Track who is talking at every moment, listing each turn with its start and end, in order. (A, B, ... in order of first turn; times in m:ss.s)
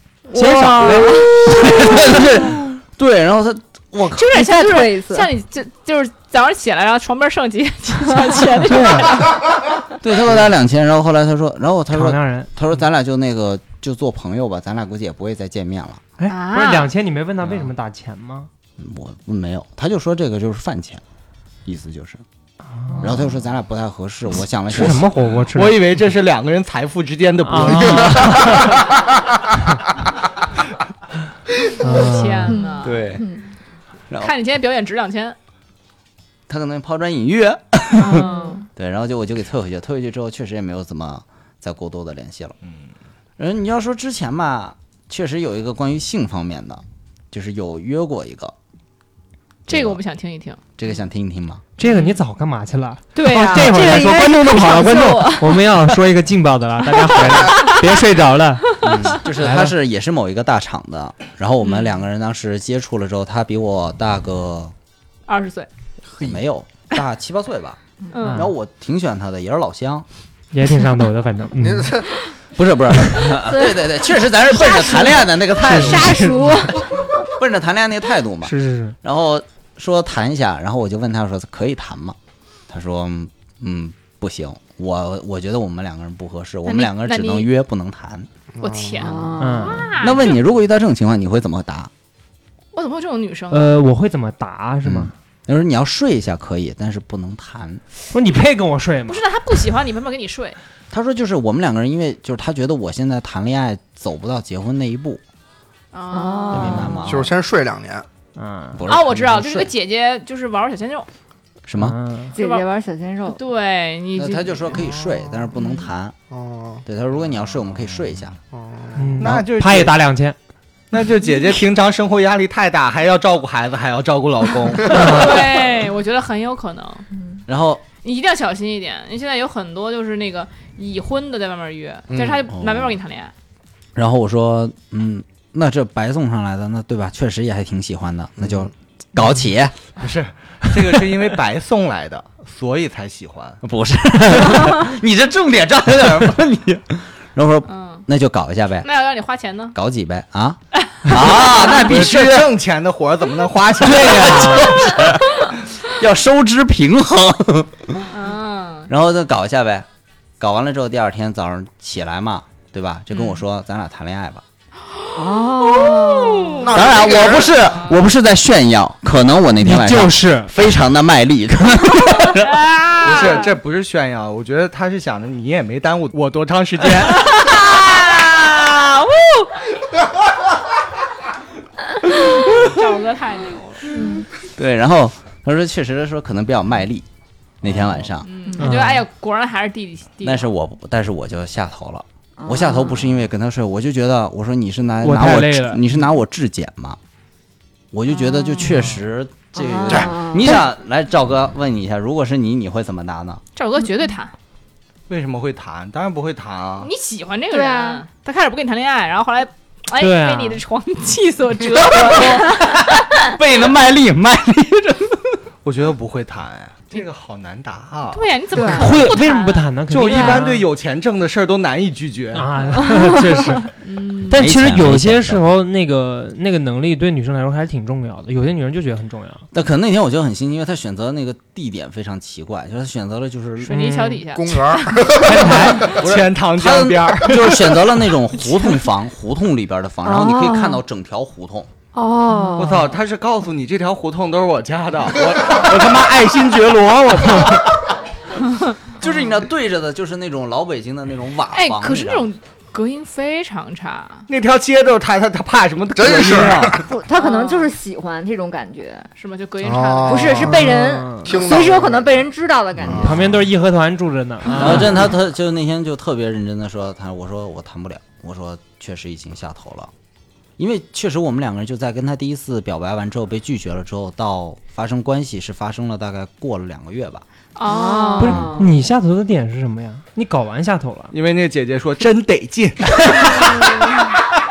0:00.3-0:02.3 A
0:00.4-0:01.1 B
0:00.4-0:04.2 C
0:04.1-0:09.3 D
0:04.3-0:05.3 A
0:08.7-0:09.3 B
0:10.0-0:16.0 C
0:11.9-0:12.5 B
0:16.2-0:18.5 B
0:16.3-0:16.9 D
0:18.8-0:21.0 C
0:21.6-0:22.2 C
0:22.7-0:23.2 B
0:23.0-0:25.1 C
0:24.7-0:25.8 B
0:25.5-0:28.9 E
0:27.4-0:28.8 B
0:31.8-0:32.6 B
0:31.8-0:33.0 D
0:32.5-0:33.4 A
0:32.8-0:33.2 E
0:34.2-0:35.4 D
0:36.5-0:42.6 C
0:37.9-0:38.6 D
0:38.1-0:38.6 A
0:43.4-0:48.5 C
0:49.7-0:50.6 D
0:49.7-0:50.0 C
0:50.8-0:51.6 C
0:51.8-0:59.7 B
0:51.8-0:52.2 D
0:53.1-0:55.6 D
0:53.4-0:54.3 A
0:57.1-0:57.8 D
0:58.8-1:04.7 C
1:05.3-1:05.7 D
1:06.2-1:07.8 C
1:08.1-1:08.5 D
1:08.2-1:08.5 B
1:08.3-1:10.0 C
1:10.5-1:12.1 B
1:11.6-1:12.1 F
1:12.5-1:16.3 C
1:13.3-1:13.9 A
1:14.4-1:17.1 A
1:15.8-1:16.7 B
1:17.3-1:22.2 C
1:18.4-1:19.0 B
1:22.7-1:28.3 C
1:26.6-1:27.5 D
1:28.5-1:29.3 F
1:28.6-1:30.4 D
1:29.0-1:29.9 A
1:29.4-1:29.9 B
1:30.0-1:31.9 C
1:32.7-1:33.7 D
1:33.5-1:35.1 B
1:34.8-1:37.8 C
1:38.1-1:39.2 B
1:39.1-1:40.6 D
1:40.9-1:45.2 C
1:45.9-1:46.9 D
1:46.1-1:47.0 A
1:46.5-1:47.3 C
1:47.0-1:48.1 F
1:48.4-1:48.8 B
1:48.7-1:49.7 C
1:48.8-1:51.1 D
1:51.6-1:52.0 C
1:51.8-1:52.3 B
1:52.3-1:53.4 A
1:52.4-1:52.6 D
1:53.3-1:54.8 D
1:54.2-1:56.1 C
1:56.3-1:56.8 F
1:56.8-1:58.4 C
1:58.5-1:59.2 F
1:59.0-2:00.4 B
1:59.2-2:00.0 E
2:00.9-2:05.0 E
2:04.8-2:07.1 D
2:04.9-2:05.5 B
2:07.5-2:07.8 C
2:08.0-2:13.3 D
2:12.1-2:12.5 F
2:12.5-2:13.0 C
2:13.9-2:19.8 C
2:18.4-2:18.7 F
2:20.0-2:23.6 E
2:23.6-2:28.9 C
2:27.7-2:28.0 D
2:28.8-2:29.7 D
2:29.7-2:32.5 C
2:31.5-2:34.7 E
2:33.8-2:38.1 C
2:33.9-2:34.8 B
2:38.1-2:38.9 D
2:38.9-2:39.9 C
2:40.4-2:44.4 C
2:43.1-2:43.4 D
2:45.1-2:46.7 A
2:45.2-2:46.7 D
2:46.6-2:47.9 F
2:46.7-2:52.6 C
2:49.6-2:50.5 B
2:52.3-2:53.5 D
2:53.0-2:57.4 E
2:57.1-2:59.6 D
3:02.2-3:04.0 D
3:03.9-3:04.2 A
3:04.5-3:07.1 C
3:07.6-3:08.3 C
3:08.2-3:10.5 D
3:08.6-3:09.0 B
3:10.2-3:17.0 C
3:12.4-3:13.0 A
3:15.0-3:15.8 B
3:17.9-3:23.4 C
3:18.2-3:18.8 A
3:19.5-3:20.6 A
3:23.6-3:24.3 D
3:25.1-3:26.9 E
3:26.8-3:32.8 D
3:27.5-3:28.0 A
3:30.0-3:30.6 B
3:31.9-3:35.3 C
3:35.6-3:38.2 E
3:38.1-3:39.6 D
3:38.5-3:38.9 A
3:38.6-3:40.7 B
3:39.9-3:42.8 E
3:42.3-3:43.7 B
3:42.8-3:43.6 A
3:43.8-3:44.4 D
3:44.3-3:49.4 B
3:44.3-3:45.5 C
3:49.5-3:53.7 C
3:53.6-3:55.0 D
3:53.7-3:54.2 B
3:54.3-3:56.0 F
3:55.1-3:56.0 B
3:55.9-3:57.7 E
3:56.0-4:01.7 C
4:00.0-4:00.8 A
4:01.9-4:02.9 A
4:02.6-4:07.7 E
4:09.0-4:12.3 C
4:11.5-4:14.2 D
4:14.3-4:16.8 E
4:15.9-4:16.8 F
4:16.8-4:19.1 A
4:17.1-4:17.7 D
4:19.2-4:20.6 D
4:19.6-4:23.2 F
4:20.0-4:23.2 A
4:20.5-4:21.4 B
4:22.9-4:25.1 B
4:24.6-4:29.9 C
4:24.6-4:24.9 A
4:30.6-4:37.2 C
4:37.6-4:38.6 D
4:37.6-4:38.7 A
4:38.2-4:41.1 B
4:41.1-4:43.5 E